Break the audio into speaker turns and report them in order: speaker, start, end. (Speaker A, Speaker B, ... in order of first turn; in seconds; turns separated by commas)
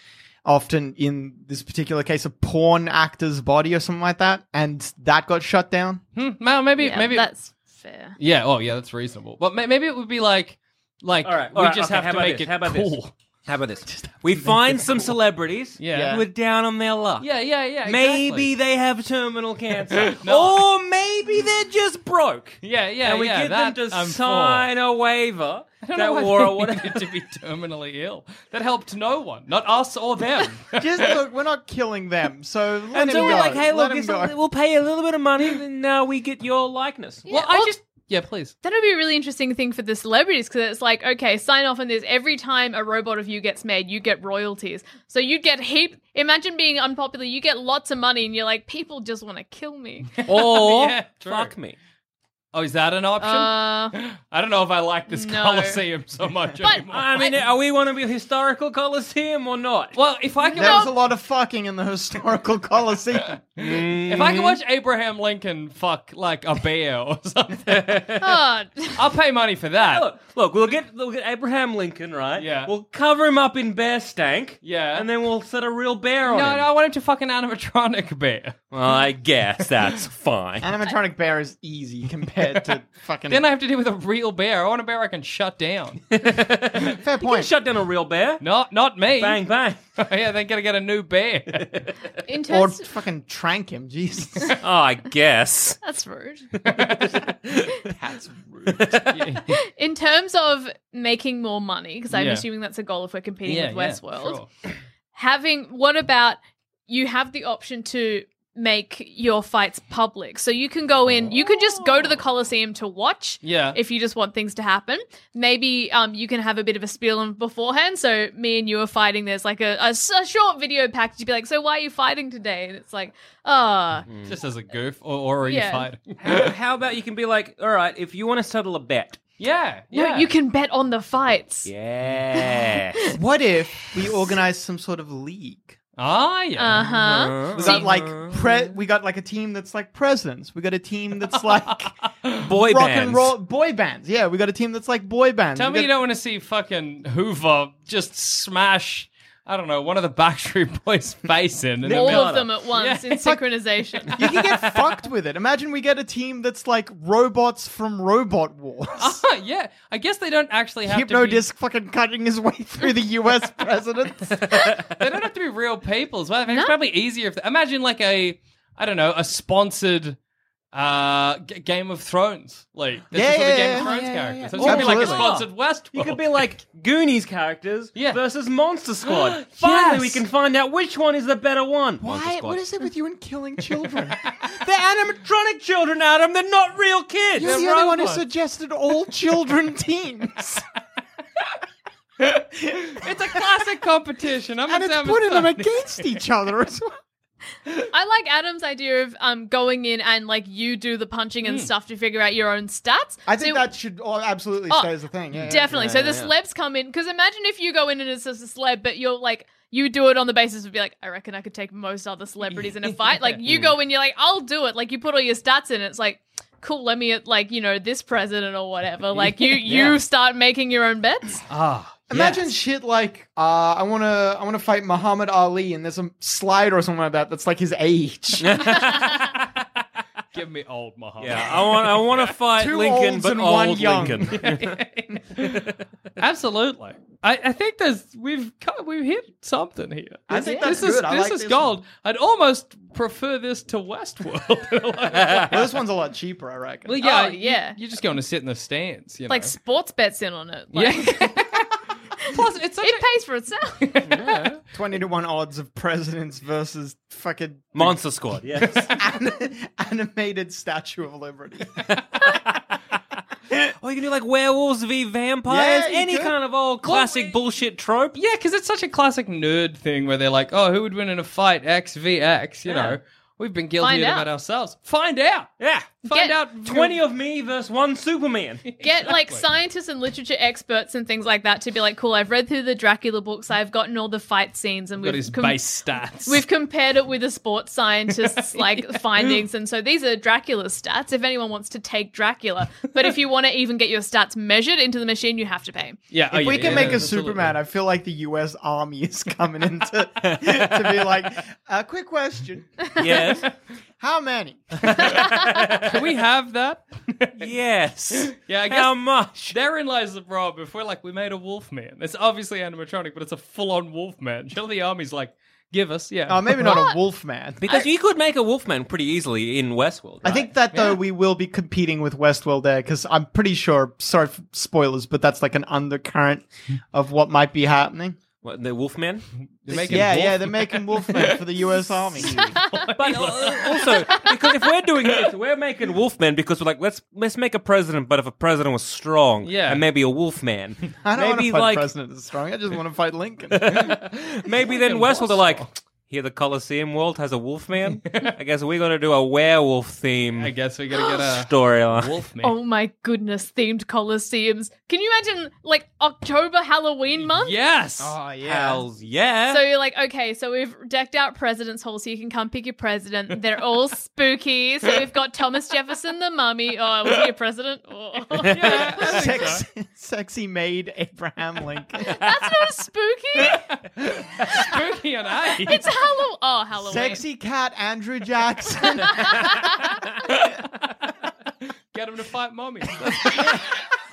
Speaker A: 0.5-6.0, Speaker B: 6.2-7.3, Speaker C: 6.8-8.2, Speaker B: 8.2-13.1, Speaker D: 11.2-17.3, Speaker B: 15.8-16.2, Speaker A: 15.9-16.2, Speaker B: 17.2-18.5, Speaker D: 17.8-27.2, Speaker B: 19.9-20.6, Speaker B: 22.6-24.7, Speaker B: 25.8-31.2, Speaker A: 30.8-34.3, Speaker D: 32.9-37.3, Speaker C: 37.3-37.8, Speaker B: 37.3-38.5, Speaker C: 38.6-50.1, Speaker B: 50.1-51.5, Speaker D: 50.3-51.8, Speaker B: 52.5-57.2, Speaker C: 53.2-54.0, Speaker C: 55.1-55.9, Speaker C: 56.6-57.4, Speaker D: 56.9-60.0, Speaker B: 59.9-60.9, Speaker C: 60.4-60.9, Speaker A: 60.5-63.4, Speaker D: 63.6-64.6, Speaker B: 63.6-68.1, Speaker C: 68.2-69.1, Speaker B: 69.0-70.0, Speaker D: 69.8-76.7, Speaker B: 72.4-72.7, Speaker B: 74.6-75.1, Speaker B: 76.2-78.5, Speaker D: 78.7-80.7, Speaker A: 80.6-83.4, Speaker B: 83.3-86.0, Speaker D: 86.1-88.4, Speaker A: 87.0-87.5, Speaker B: 88.4-89.4, Speaker D: 89.2-89.8, Speaker B: 90.0-91.8, Speaker C: 92.3-92.8, Speaker A: 92.5-94.5, Speaker D: 94.6-95.8, Speaker C: 95.8-96.5, Speaker D: 96.7-97.8, Speaker B: 96.7-97.1, Speaker A: 97.9-99.0, Speaker D: 98.8-99.1, Speaker B: 99.1-99.5, Speaker C: 99.5-104.4, Speaker B: 102.1-102.5, Speaker B: 103.5-104.5, Speaker C: 105.1-124.1, Speaker B: 113.4-113.8, Speaker D: 124.1-124.4, Speaker B: 124.2-126.5, Speaker C: 125.5-125.9, Speaker D: 126.2-129.2, Speaker B: 129.4-130.3, Speaker C: 129.9-131.7, Speaker D: 131.6-133.0, Speaker C: 132.4-133.2, Speaker A: 133.1-135.8, Speaker B: 135.9-136.9, Speaker C: 136.6-137.9, Speaker D: 136.7-138.7, Speaker A: 137.6-141.9, Speaker B: 141.8-142.5, Speaker D: 142.4-143.4, Speaker A: 142.5-145.9, Speaker B: 145.6-153.3, Speaker C: 151.8-154.2, Speaker D: 151.8-152.5, Speaker A: 154.2-159.2, Speaker B: 154.4-154.9, Speaker B: 159.0-161.4, Speaker A: 160.8-164.4, Speaker D: 164.5-164.8, Speaker B: 165.0-170.2, Speaker C: 166.5-166.8, Speaker B: 170.7-176.5, Speaker A: 173.1-175.3, Speaker D: 174.5-182.6, Speaker B: 177.9-178.2, Speaker B: 179.0-180.2, Speaker A: 182.0-184.2, Speaker D: 184.5-187.8, Speaker A: 187.4-190.6, Speaker B: 187.4-188.2, Speaker B: 192.6-196.2, Speaker A: 194.7-196.9, Speaker C: 197.9-203.7, Speaker B: 201.4-201.7, Speaker A: 203.3-205.7, Speaker C: 204.7-221.4, Speaker D: 205.4-206.3, Speaker B: 212.8-213.4, Speaker D: 213.4-213.8, Speaker B: 219.1-219.9, Speaker B: 221.5-222.5, Speaker A: 222.1-228.6, Speaker D: 228.4-229.3, Speaker B: 230.3-232.1, Speaker D: 231.2-234.8, Speaker A: 232.6-234.3, Speaker B: 234.3-235.6, Speaker B: 236.2-245.7, Speaker A: 240.3-241.7, Speaker C: 240.3-240.8, Speaker A: 245.5-247.0, Speaker B: 246.9-249.6, Speaker C: 247.0-247.8, Speaker C: 249.3-251.6, Speaker B: 250.7-251.5, Speaker C: 252.2-253.9, Speaker B: 252.3-253.1, Speaker B: 253.8-254.6, Speaker D: 254.1-254.4, Speaker A: 254.7-257.9, Speaker D: 257.7-258.9, Speaker A: 258.6-261.7, Speaker D: 262.2-262.6, Speaker D: 263.8-268.2, Speaker A: 265.5-266.3, Speaker B: 268.2-275.5, Speaker D: 272.7-273.0, Speaker C: 273.8-274.3, Speaker D: 275.6-276.0, Speaker B: 276.0-277.0, Speaker C: 276.1-276.4, Speaker D: 276.6-278.7, Speaker B: 278.7-279.4, Speaker C: 278.8-296.0, Speaker B: 285.0-286.4, Speaker B: 288.4-289.4, Speaker B: 296.1-297.6, Speaker A: 296.3-302.7, Speaker D: 296.6-297.0, Speaker D: 300.2-301.1, Speaker D: 303.0-303.4, Speaker A: 304.0-304.9, Speaker D: 304.8-305.9, Speaker B: 305.8-307.5, Speaker D: 307.4-309.6, Speaker B: 308.1-316.8, Speaker A: 316.3-317.6, Speaker C: 316.6-317.0, Speaker D: 317.6-320.5, Speaker A: 320.2-328.2, Speaker B: 320.7-321.0, Speaker D: 328.4-330.1, Speaker B: 329.6-331.4, Speaker A: 329.7-332.4, Speaker B: 332.2-334.2, Speaker D: 332.9-341.9, Speaker B: 339.4-339.8, Speaker A: 341.0-343.7, Speaker D: 343.5-350.5, Speaker B: 344.6-345.7, Speaker B: 348.1-348.3, Speaker B: 350.3-352.6, Speaker D: 351.3-352.2, Speaker C: 352.4-357.6, Speaker B: 357.2-358.1, Speaker A: 358.0-358.8, Speaker D: 358.4-359.7, Speaker C: 359.5-369.3, Speaker D: 368.4-368.9, Speaker B: 368.5-369.6, Speaker A: 368.9-372.2, Speaker C: 372.0-373.6, Speaker B: 374.0-375.9, Speaker C: 375.4-377.2, Speaker A: 376.8-379.2, Speaker B: 381.9-383.7